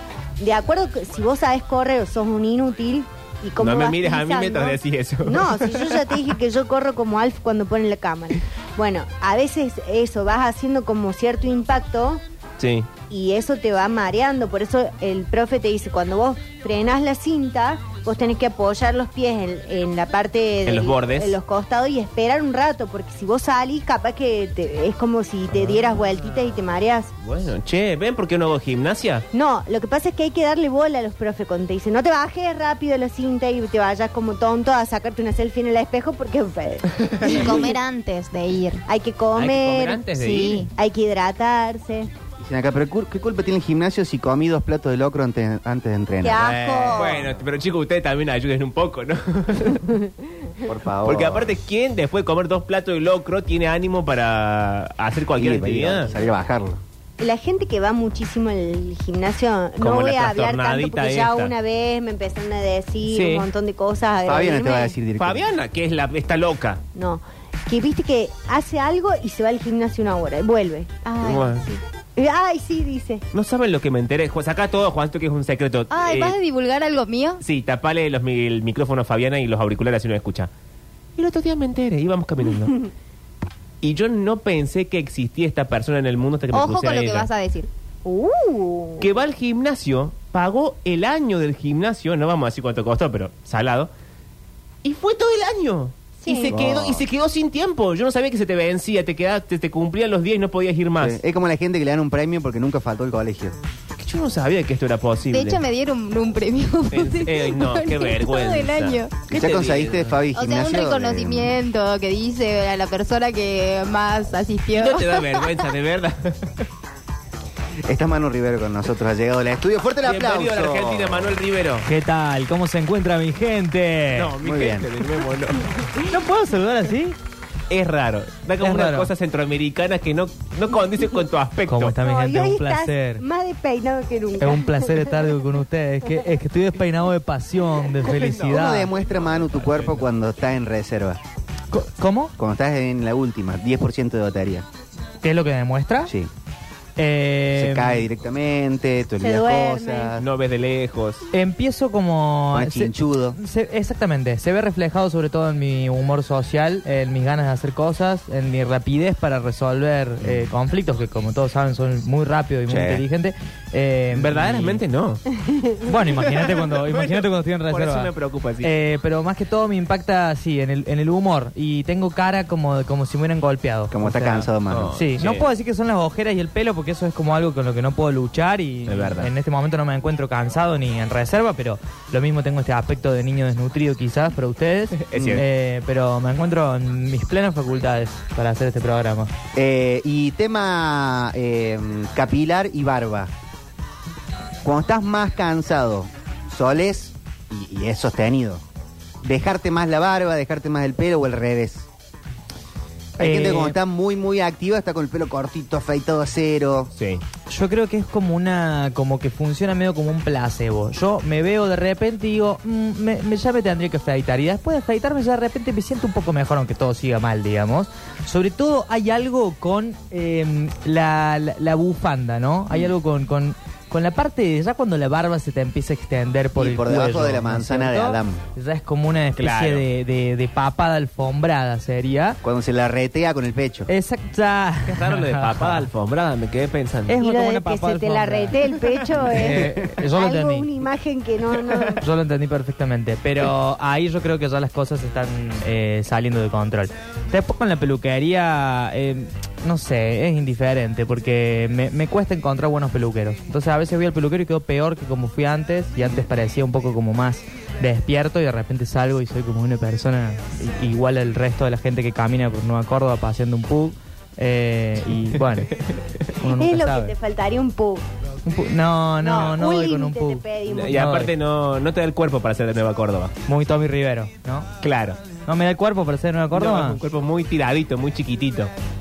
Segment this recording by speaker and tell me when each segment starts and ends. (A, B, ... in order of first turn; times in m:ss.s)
0:00.4-0:12.2 A
0:03.6-0:06.2 B
0:12.6-0:12.9 B
0:13.1-0:27.1 A
0:20.7-0:21.4 B
0:27.2-0:29.3 B
0:29.3-0:37.7 A
0:37.2-0:38.8 C
0:38.9-0:42.1 A
0:39.3-0:40.7 B
0:40.2-0:40.7 C
0:42.4-0:47.0 D
0:46.2-0:47.3 A
0:46.5-0:50.0 B
0:50.6-0:51.5 D
0:51.0-0:56.1 B
0:55.4-0:56.8 D
0:57.2-1:05.0 A
0:59.8-1:01.5 B
1:03.1-1:03.5 B
1:04.2-1:05.5 D
1:05.2-1:06.8 B
1:07.0-1:11.1 A
1:11.0-1:11.8 C
1:11.2-1:11.7 B
1:12.2-1:13.2 A
1:13.3-1:16.4 B
1:15.9-1:17.4 C
1:17.4-1:20.5 B
1:21.2-1:22.9 B
1:23.8-1:27.3 B
1:26.5-1:27.7 C
1:28.0-1:29.1 A
1:29.0-1:33.9 B
1:34.8-1:41.2 B
1:36.2-1:36.5 A
1:36.5-1:37.1 D
1:41.0-1:43.6 D
1:44.0-1:45.6 B
1:45.3-1:49.1 C
1:46.9-1:50.2 B
1:49.3-1:51.6 D
1:50.3-1:55.6 C
1:54.8-1:56.7 B
1:57.9-2:01.4 D
2:00.0-2:01.9 B
2:01.9-2:04.3 E
2:04.1-2:05.9 B
2:04.4-2:04.9 D
2:06.0-2:07.2 E
2:07.7-2:12.0 B
2:08.6-2:09.1 E
2:11.7-2:13.2 E
2:12.0-2:15.1 A
2:14.4-2:18.9 E
2:18.0-2:20.0 B
2:18.4-2:21.2 D
2:21.7-2:22.3 E
2:22.4-2:24.7 D
2:25.2-2:26.1 E
2:27.0-2:28.1 E
2:27.5-2:30.3 D
2:29.2-2:30.2 A
2:30.2-2:31.2 B
2:31.3-2:44.8 E
2:32.5-2:33.4 D
2:42.7-2:43.0 D
2:44.1-2:45.2 B
2:45.8-3:09.3 E
2:46.2-2:48.7 B
2:53.9-2:55.0 D
2:54.7-2:55.5 B
2:58.9-2:59.3 B
3:05.0-3:05.4 B
3:05.2-3:05.4 D
3:09.6-3:13.3 D
3:14.6-3:18.6 D
3:19.2-3:21.9 D
3:23.2-3:23.8 E
3:23.2-3:26.9 D
3:27.0-3:27.2 B
3:27.5-3:52.4 E
3:46.6-3:48.4 D
3:49.4-3:49.8 B
3:52.4-3:53.9 D
3:53.9-3:55.9 E
3:54.9-3:57.2 B
3:57.1-4:00.7 E
3:57.2-4:02.0 A
4:02.0-4:25.7 E
4:25.4-4:26.0 B
4:26.4-4:27.1 E
4:26.5-4:28.0 A
4:28.5-4:31.3 E
4:29.2-4:31.1 A
4:30.7-4:33.4 B
4:33.5-4:34.7 E
4:34.8-4:35.2 B
4:35.4-4:37.0 E
4:36.5-4:38.7 B